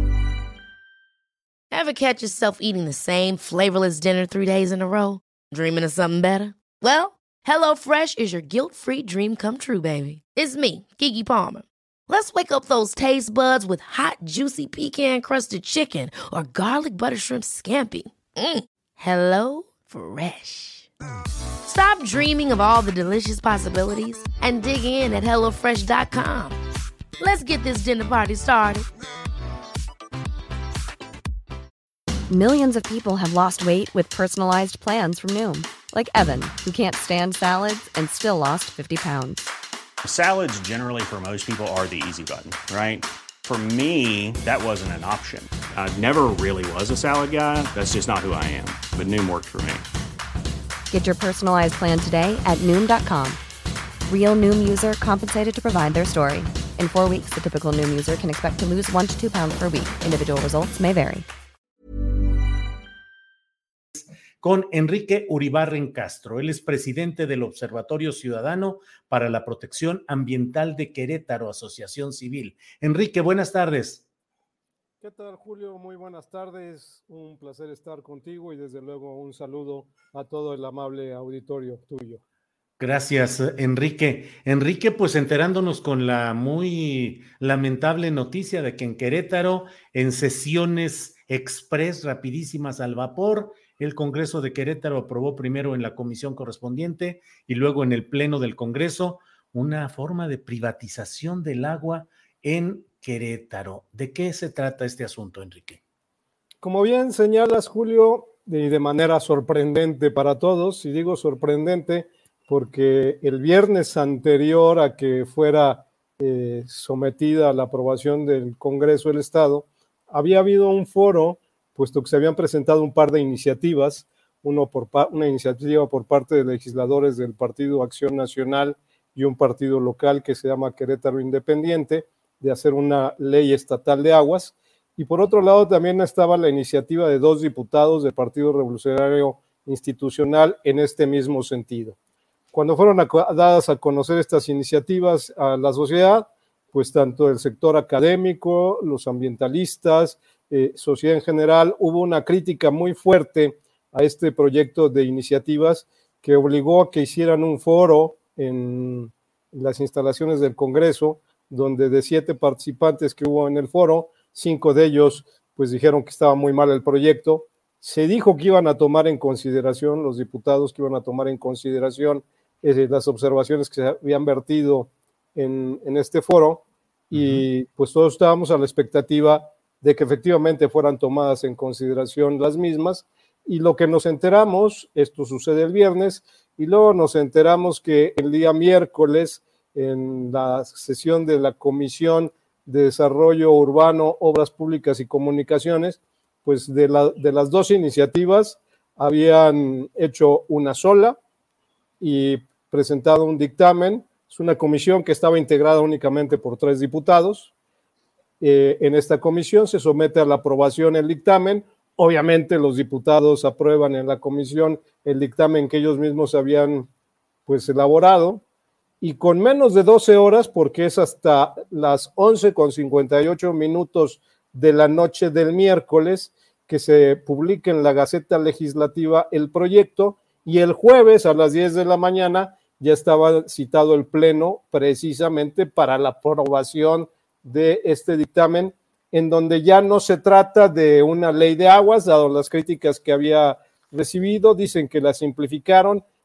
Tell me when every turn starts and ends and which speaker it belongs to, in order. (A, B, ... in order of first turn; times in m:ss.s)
0:01.7-0:20.9 A
0:21.6-0:26.6 A
0:27.2-0:28.9 A
0:32.3-0:39.5 B
0:40.0-0:49.9 C
0:50.9-0:53.4 B
0:54.1-1:01.3 B
1:04.0-1:14.0 D
1:15.0-1:22.2 E
1:22.8-1:45.8 D
1:46.6-2:22.0 E
2:22.5-3:21.2 E
2:57.1-2:57.4 D
3:22.0-3:27.5 E
3:28.4-3:36.9 E
3:37.5-3:38.4 E
3:39.0-4:06.0 E